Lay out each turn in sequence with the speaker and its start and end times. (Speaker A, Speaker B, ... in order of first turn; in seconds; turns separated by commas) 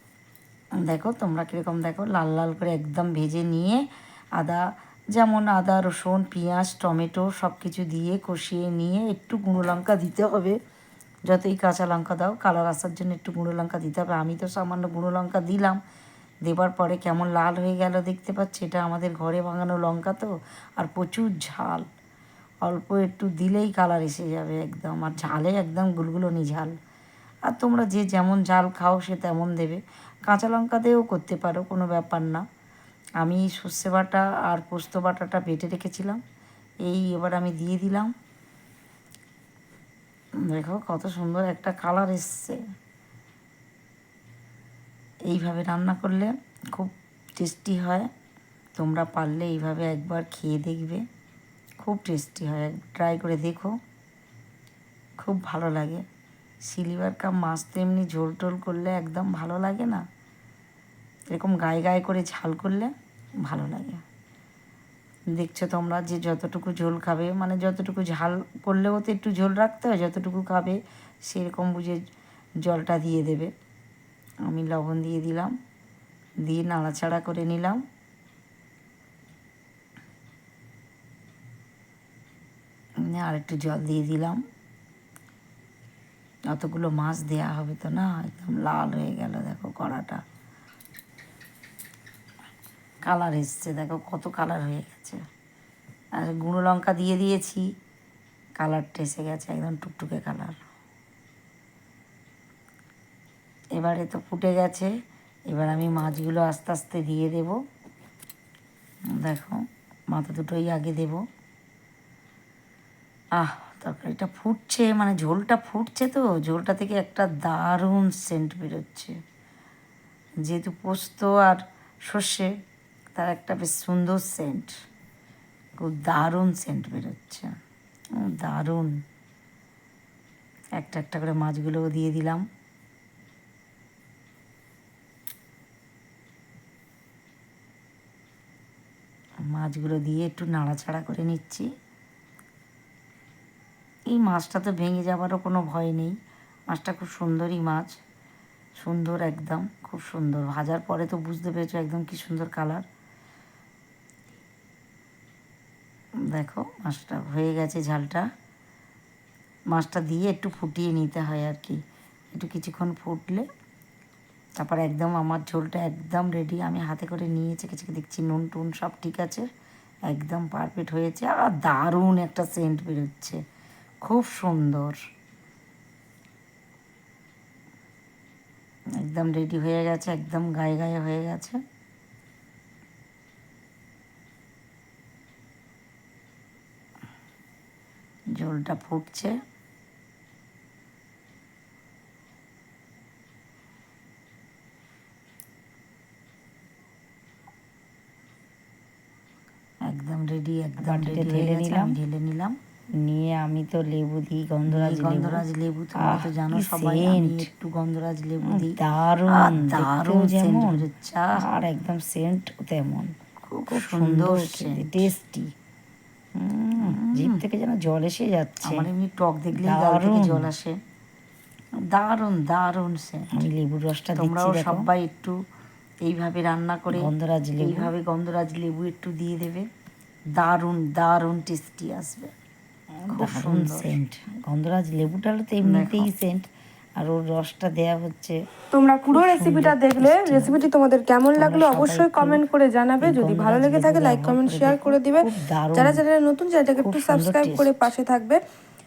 Speaker A: 0.8-3.8, Speaker A: 5.1-10.6, Speaker A: 11.2-15.8, Speaker A: 16.4-21.8, Speaker A: 22.6-26.8, Speaker A: 27.4-32.4, Speaker A: 33.2-36.2, Speaker A: 36.8-38.1, Speaker A: 40.5-42.6, Speaker A: 45.3-48.1, Speaker A: 48.8-51.0, Speaker A: 51.8-53.7, Speaker A: 55.2-56.0, Speaker A: 56.6-60.0, Speaker A: 61.3-62.9, Speaker A: 63.4-64.0, Speaker A: 65.3-72.0, Speaker A: 72.6-73.5, Speaker A: 74.5-75.5, Speaker A: 76.4-77.8, Speaker A: 83.1-84.4, Speaker A: 86.5-90.2, Speaker A: 93.0-95.2, Speaker A: 96.2-97.6, Speaker A: 98.6-100.6, Speaker A: 103.8-104.9, Speaker A: 105.5-107.5, Speaker A: 109.2-109.6, Speaker A: 110.1-111.2, Speaker A: 113.4-119.1, Speaker A: 120.4-122.5, Speaker A: 123.2-124.7, Speaker A: 125.8-127.5, Speaker A: 128.2-129.0, Speaker A: 130.8-132.4, Speaker A: 139.5-141.7, Speaker A: 144.1-146.1, Speaker A: 146.7-147.9, Speaker A: 148.8-152.8, Speaker A: 156.3-158.2, Speaker A: 159.7-161.8, Speaker A: 162.3-163.5, Speaker A: 164.6-169.4, Speaker A: 170.1-173.4, Speaker A: 174.0-175.0, Speaker A: 179.0-181.6, Speaker A: 188.3-189.3, Speaker A: 199.9-202.6, Speaker B: 200.8-201.9, Speaker B: 203.0-205.4, Speaker A: 204.7-208.8, Speaker B: 206.0-207.5, Speaker B: 208.4-210.8, Speaker A: 209.3-211.4, Speaker B: 211.4-213.1, Speaker A: 213.4-215.1, Speaker B: 213.7-215.5, Speaker B: 216.3-218.9, Speaker A: 216.8-217.4, Speaker A: 218.6-220.8, Speaker B: 219.5-220.5, Speaker A: 221.9-223.4, Speaker B: 223.3-224.9, Speaker A: 224.2-225.3, Speaker A: 226.0-229.7, Speaker B: 226.9-227.9, Speaker A: 230.3-232.3, Speaker B: 233.0-236.5, Speaker A: 233.1-234.0, Speaker A: 235.6-236.1, Speaker B: 237.0-238.2, Speaker C: 238.7-248.4, Speaker B: 239.2-240.6, Speaker B: 241.4-242.4, Speaker B: 243.0-245.9, Speaker B: 246.9-247.5